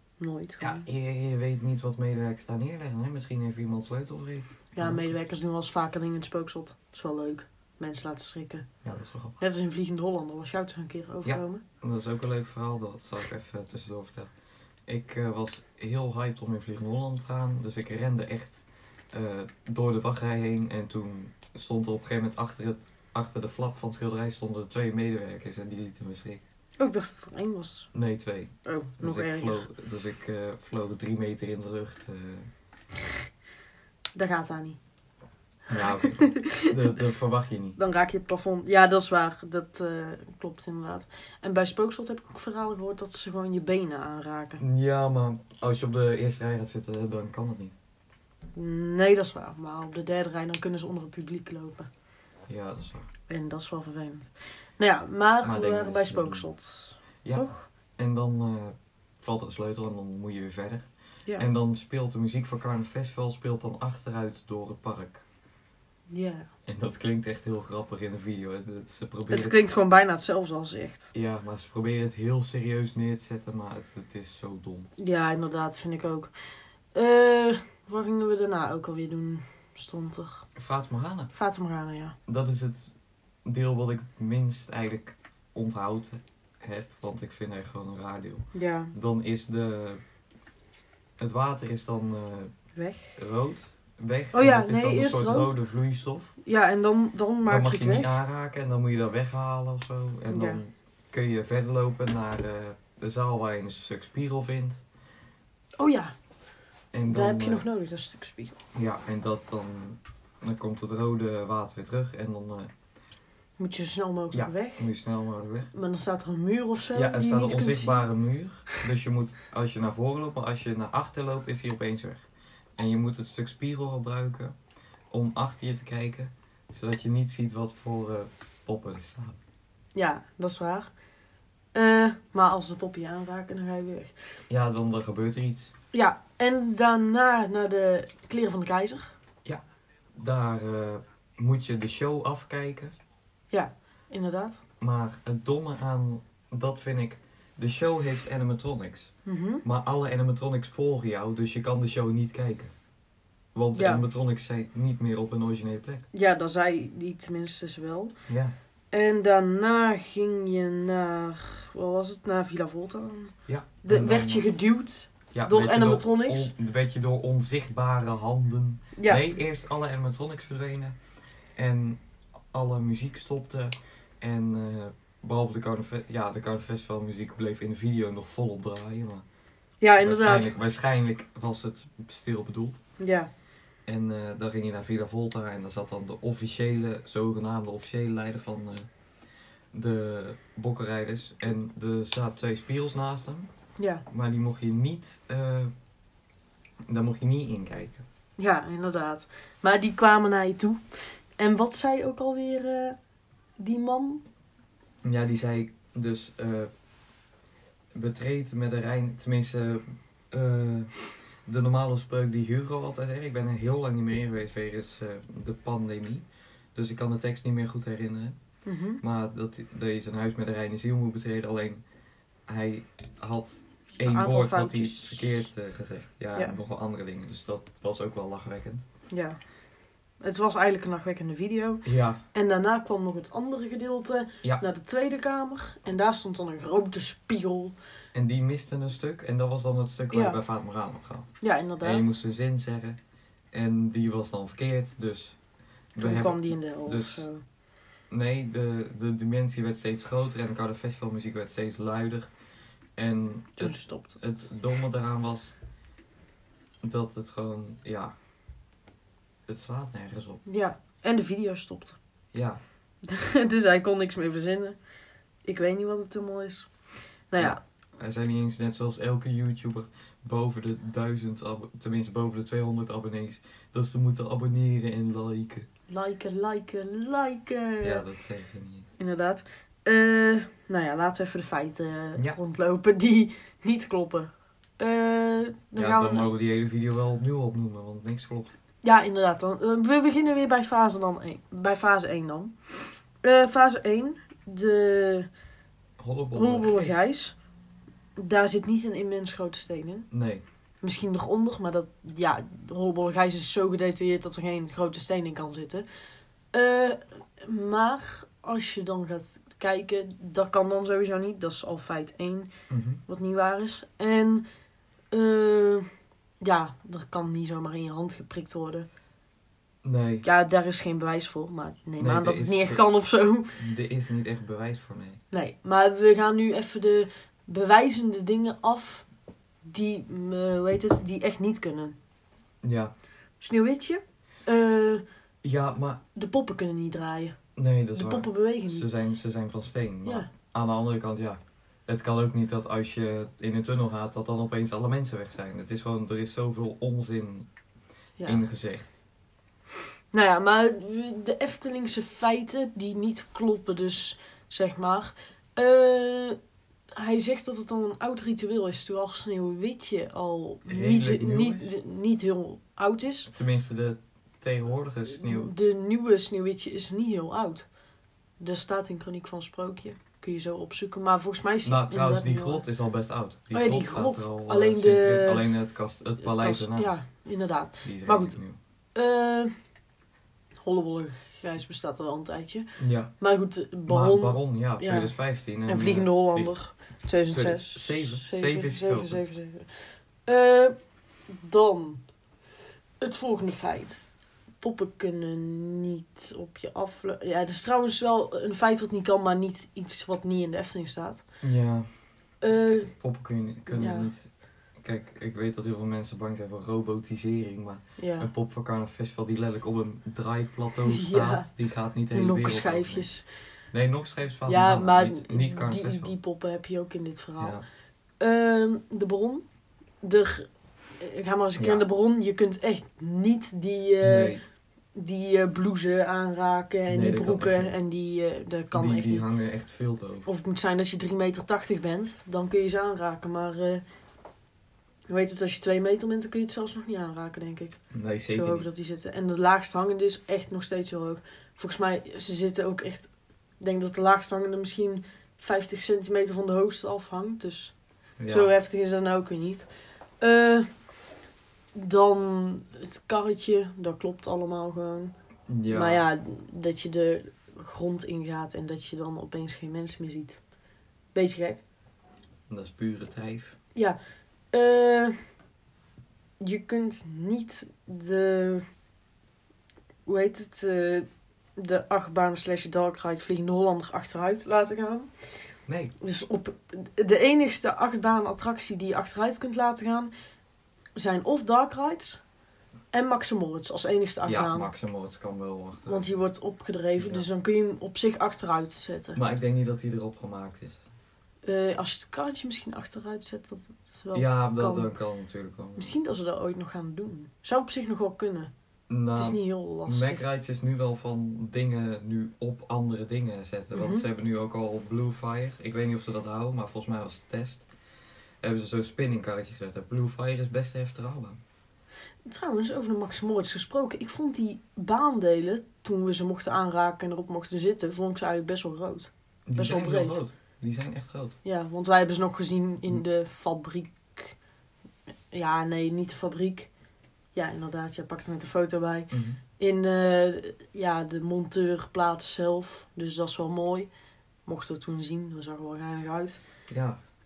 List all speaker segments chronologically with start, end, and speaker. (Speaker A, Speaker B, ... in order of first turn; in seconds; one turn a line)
Speaker A: 0.2-0.8
Speaker B: 0.6-5.1
Speaker A: 4.7-8.7
Speaker B: 8.8-9.4
Speaker A: 9.4-11.6
Speaker B: 11.2-14.3
Speaker B: 14.9-18.6
Speaker B: 19.1-26.4
Speaker A: 26.8-27.9
Speaker B: 27.9-32.5
Speaker A: 28.6-29.7
Speaker A: 34.1-34.8
Speaker B: 35.7-37.8
Speaker A: 35.8-36.9
Speaker A: 37.8-44.6
Speaker B: 44.6-47.7
Speaker A: 48.5-51.9
Speaker B: 52.5-53.1
Speaker A: 53.3-57.7
Speaker B: 55.4-56.5
Speaker B: 57.2-65.2
Speaker A: 66.1-66.5
Speaker B: 66.7-69.5
Speaker A: 69.3-71.1
Speaker B: 71.1-74.9
Speaker A: 75.0-76.3
Speaker A: 76.9-80.5
Speaker B: 80.5-81.3
Speaker A: 81.3-82.2
Speaker B: 82.2-82.9
Speaker B: 83.4-90.0
Speaker A: 88.5-88.9
Speaker B: 91.2-92.5
Speaker A: 92.7-93.2
Speaker B: 93.2-96.3
Speaker A: 94.3-95.5
Speaker A: 96.4-98.1
Speaker B: 97.4-104.8
Speaker A: 100.3-100.6
Speaker A: 105.8-106.1
Speaker B: 106.9-107.7
Speaker A: 107.0-108.5
Speaker B: 108.7-112.7
Speaker A: 113.6-114.9
Speaker B: 114.3-115.7
Speaker A: 115.7-118.1
Speaker B: 116.9-122.2
Speaker B: 122.8-124.5
Speaker B: 125.1-129.4
Speaker A: 129.9-130.9
Speaker A: 131.7-134.2
Speaker B: 134.5-135.7
Speaker A: 135.9-139.1
Speaker B: 140.1-142.9
Speaker A: 143.5-144.6
Speaker B: 144.8-152.7
Speaker A: 149.2-149.6
Speaker B: 153.5-156.1
Speaker A: 153.7-154.0
Speaker A: 156.1-158.1
Speaker B: 158.3-158.5
Speaker A: 158.9-166.5
Speaker B: 163.4-164.5
Speaker B: 165.3-170.9
Speaker A: 168.9-169.2
Speaker B: 171.6-172.0
Speaker B: 172.5-179.2
Speaker A: 179.8-180.5
Speaker B: 180.0-182.8
Speaker A: 183.0-183.3
Speaker B: 183.8-188.9
Speaker B: 189.7-193.5
Speaker A: 193.8-194.0
Speaker B: 194.1-195.7
Speaker B: 196.9-198.0
Speaker A: 198.4-202.9
Speaker A: 203.6-204.2
Speaker B: 205.0-206.7
Speaker B: 207.9-218.3
Speaker A: 218.7-219.0
Speaker B: 219.0-221.8
Speaker B: 222.5-228.8
Speaker A: 224.1-225.5
Speaker A: 229.1-229.4
Speaker A: 230.2-237.7
Speaker B: 231.8-232.2
Speaker B: 238.1-243.0
Speaker A: 240.1-240.4
Speaker A: 241.4-242.1
Speaker B: 243.5-245.4
Speaker B: 245.9-247.2
Speaker A: 246.0-247.4
Speaker B: 248.1-252.3
Speaker B: 252.9-255.6
Speaker A: 253.6-254.2
Speaker B: 256.8-258.1
Speaker B: 259.5-260.4
Speaker A: 260.4-262.0
Speaker B: 262.3-262.6
Speaker A: 263.0-264.8
Speaker A: 265.4-266.7
Speaker A: 267.3-267.6
Speaker B: 267.4-275.7
Speaker A: 275.9-278.0
Speaker B: 277.8-278.9
Speaker A: 279.0-286.3
Speaker B: 285.7-288.6
Speaker A: 288.8-292.5
Speaker A: 293.2-295.3
Speaker B: 296.0-297.0
Speaker A: 296.3-297.4
Speaker A: 298.1-300.1
Speaker B: 300.1-300.4
Speaker A: 300.8-305.8
Speaker A: 306.5-312.5
Speaker B: 312.7-313.0
Speaker A: 313.1-314.4
Speaker A: 315.1-315.9
Speaker A: 316.4-318.9
Speaker B: 319.8-320.2
Speaker A: 320.2-323.6
Speaker B: 322.0-322.8
Speaker B: 323.6-325.2
Speaker A: 325.3-329.1
Speaker A: 329.6-332.0
Speaker B: 332.6-332.9
Speaker A: 333.4-335.0
Speaker B: 335.4-336.0
Speaker A: 336.1-337.4
Speaker B: 337.6-347.5
Speaker A: 337.9-339.1
Speaker B: 348.2-348.9
Speaker A: 350.1-356.4
Speaker A: 356.9-363.3
Speaker B: 360.6-361.7
Speaker B: 363.3-365.5
Speaker A: 365.1-367.7
Speaker A: 368.4-372.6
Speaker B: 371.6-377.0
Speaker A: 373.5-375.5
Speaker A: 376.2-378.4
Speaker B: 377.8-378.6
Speaker A: 378.9-379.5
Speaker A: 380.6-385.1
Speaker B: 382.8-383.1
Speaker B: 383.9-386.5
Speaker A: 385.6-390.8
Speaker B: 387.3-389.3
Speaker A: 391.3-392.0
Speaker A: 393.0-401.2
Speaker B: 401.4-401.9
Speaker A: 402.4-402.9
Speaker B: 402.5-404.3
Speaker A: 403.7-404.1
Speaker B: 404.8-413.1
Speaker A: 408.0-408.3
Speaker A: 410.9-411.5
Speaker A: 412.1-413.2
Speaker B: 413.7-416.1
Speaker A: 414.4-417.6
Speaker B: 417.4-417.6
Speaker A: 418.2-419.4
Speaker A: 420.0-424.4
Speaker B: 421.6-421.8
Speaker B: 424.0-424.4
Speaker A: 424.9-429.2
Speaker B: 426.9-427.7
Speaker B: 428.7-430.3
Speaker A: 430.2-433.8
Speaker A: 435.1-447.7
Speaker B: 437.9-438.7
Speaker B: 448.2-448.5
Speaker A: 448.2-449.7
Speaker A: 450.2-450.7
Speaker A: 451.7-455.1
Speaker B: 455.5-456.1
Speaker A: 455.7-460.4
Speaker A: 461.1-461.6
Speaker B: 462.5-463.6
Speaker A: 464.5-465.1
Speaker A: 466.4-468.6
Speaker A: 470.1-475.1
Speaker B: 475.6-475.9
Speaker A: 476.0-480.1
Speaker A: 480.9-482.2
Speaker A: 482.9-484.7
Speaker B: 484.2-486.1
Speaker A: 485.9-489.2
Speaker B: 487.0-487.2
Speaker B: 489.1-490.8
Speaker A: 491.4-494.9
Speaker B: 494.1-495.9
Speaker A: 495.8-498.5
Speaker B: 498.9-507.7
Speaker A: 499.1-500.2
Speaker A: 503.7-504.0
Speaker B: 508.4-511.4
Speaker A: 512.2-520.2
Speaker B: 519.5-521.4
Speaker A: 521.4-524.4
Speaker A: 525.3-526.7
Speaker A: 527.3-533.9
Speaker B: 529.1-529.4
Speaker A: 534.5-536.4
Speaker B: 536.7-537.0